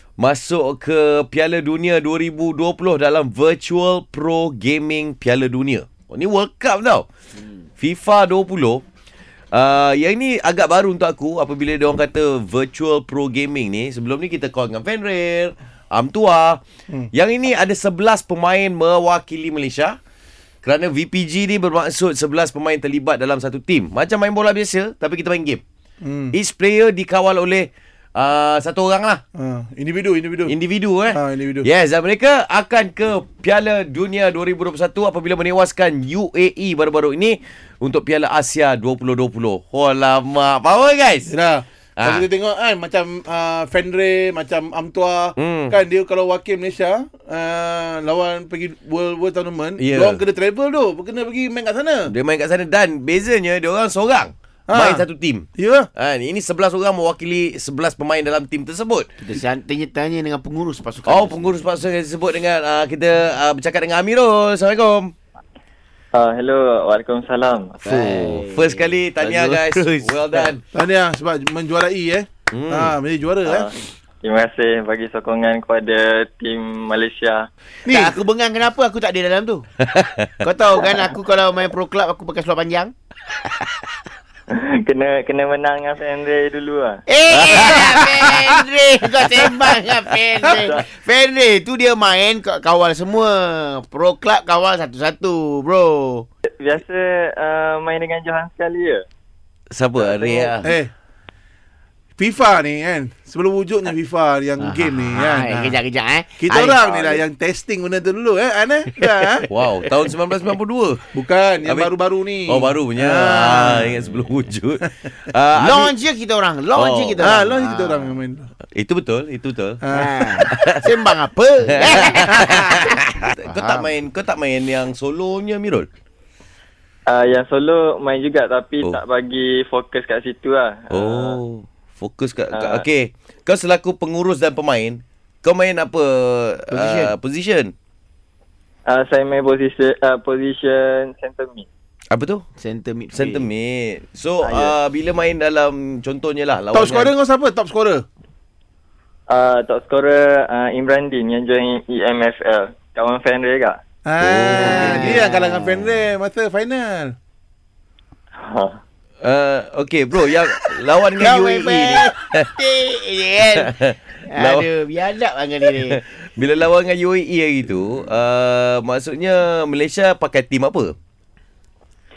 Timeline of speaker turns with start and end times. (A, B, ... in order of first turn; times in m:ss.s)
0:00.2-0:07.1 A
0:07.8-0:08.8 A
0:09.5-0:16.6 A
0:17.1-0:20.0 A
0:20.6-0:25.6 A
0:26.0-0:26.3 B
0:26.3-0:29.2 A
0:29.3-0:30.5 B
0:30.5-0:41.3 A
0:31.1-0:31.7 B
0:41.3-0:52.1 B
0:42.0-0:42.2 A
0:45.4-0:45.8 A
0:49.8-0:50.2 A
0:52.1-0:59.1 A
0:54.7-0:55.0 B
0:55.6-0:55.9 B
0:59.2-1:01.6 C
1:01.0-1:05.1 A
1:06.1-1:07.8 D
1:07.8-1:10.4 C
1:07.8-1:10.6 A
1:10.7-1:13.7 B
1:12.5-1:12.9 A
1:13.4-1:17.5 D
1:17.8-1:18.1 B
1:17.8-1:19.6 C
1:19.8-1:20.4 A
1:20.4-1:22.9 C
1:20.6-1:20.9 B
1:24.5-1:27.0 D
1:27.1-1:36.3 C
1:27.3-1:28.3 A
1:27.8-1:28.5 B
1:30.4-1:30.7 B
1:30.5-1:30.8 D
1:36.5-1:39.0 D
1:39.7-1:40.7 A
1:40.0-1:40.7 D
1:40.6-1:40.9 B
1:42.2-1:45.8 B
1:44.6-1:47.2 C
1:46.4-1:49.5 B
1:49.5-1:51.0 A
1:51.1-1:54.0 B
1:51.6-1:51.9 A
1:52.5-1:55.9 A
1:55.5-1:58.2 C
1:56.8-1:57.2 A
1:57.2-1:58.5 B
1:58.7-1:59.8 A
1:59.8-2:00.5 B
1:59.9-2:03.9 C
2:00.5-2:00.8 A
2:01.7-2:05.9 A
2:02.2-2:02.9 B
2:07.1-2:11.4 D
2:10.9-2:17.7 A
2:12.5-2:12.8 D
2:16.7-2:17.1 C
2:18.9-2:21.7 D
2:22.1-2:22.4 A
2:22.6-2:23.5 C
2:23.1-2:27.1 A
2:24.4-2:24.7 C
2:26.7-2:28.0 B
2:29.3-2:33.8 D
2:34.0-2:37.2 B
2:34.2-2:35.2 A
2:34.5-2:36.0 C
2:38.4-2:38.8 D
2:39.2-2:42.5 A
2:41.2-2:46.0 C
2:43.5-2:44.7 A
2:45.8-2:50.9 A